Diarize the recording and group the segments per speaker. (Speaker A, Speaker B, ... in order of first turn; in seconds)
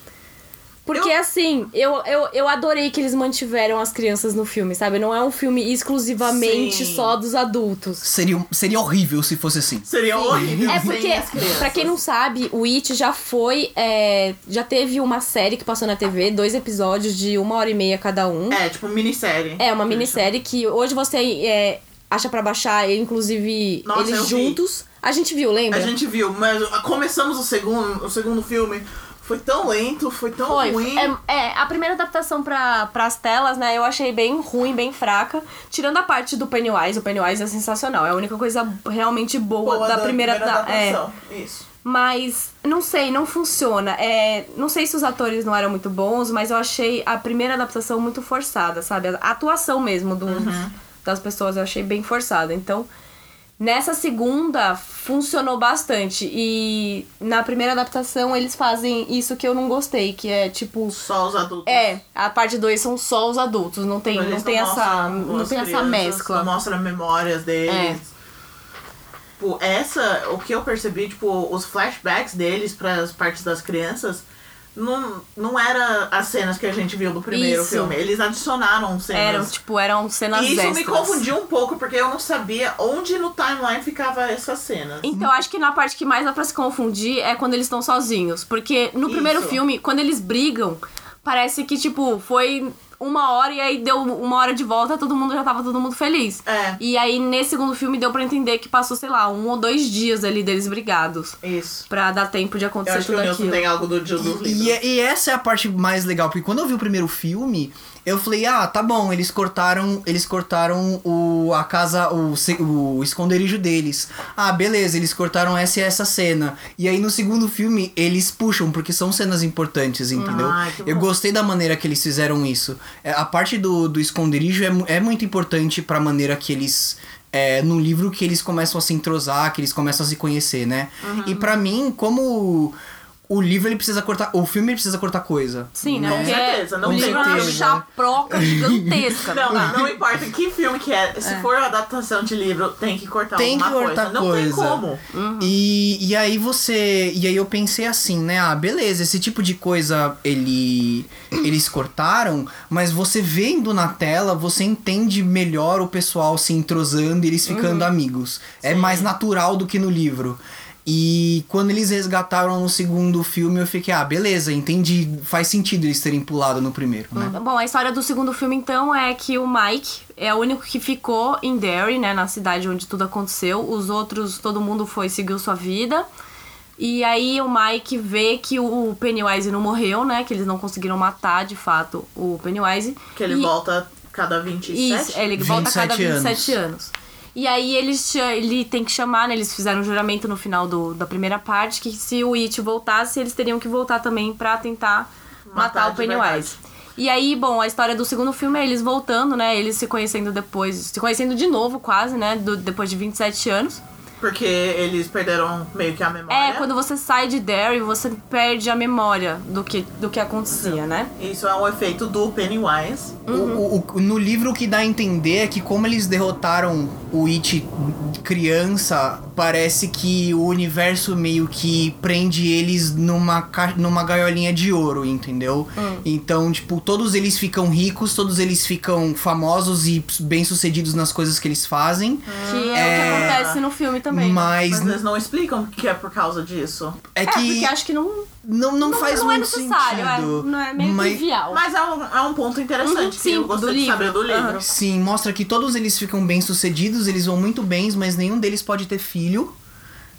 Speaker A: 0.9-8.1, 10.1-18.6, 19.6-25.9, 30.5-41.0, 41.8-52.9, 53.6-61.0, 61.7-66.5, 67.7-68.0, 77.3-78.0, 79.1-81.2, 85.0-101.4, 101.9-103.7, 120.2-120.5, 135.8-139.8, 141.2-141.5, 145.1-145.6, 157.5-157.9, 167.2-176.1, 176.8-183.5, 184.7-203.8, 206.3-211.1, 213.3-213.6, 225.8-226.1, 232.4-234.5, 237.2-238.3, 238.8-241.6, 242.8-244.6
Speaker B: 6.2-7.1, 9.9-11.9, 18.5-20.3, 23.9-24.6, 25.7-31.1, 39.6-41.6, 50.3-50.7, 60.9-61.9, 64.1-68.1, 69.4-74.2, 74.8-79.5, 80.3-85.1, 89.1-89.6, 96.5-96.8, 101.4-101.9, 102.9-104.8, 120.2-121.1, 131.0-131.5, 136.1-137.7, 139.3-145.0, 158.6-159.1, 183.2-185.3, 195.5-196.6, 204.2-206.7, 210.5-213.2, 232.3-233.6, 234.7-237.0, 241.5-244.6
Speaker C: 8.0-10.9, 104.2-132.8, 133.3-139.9, 143.4-144.8, 145.4-167.4, 185.3-186.6, 213.3-233.4, 234.1-235.0, 237.1-237.7, 238.4-241.2, 244.6-249.5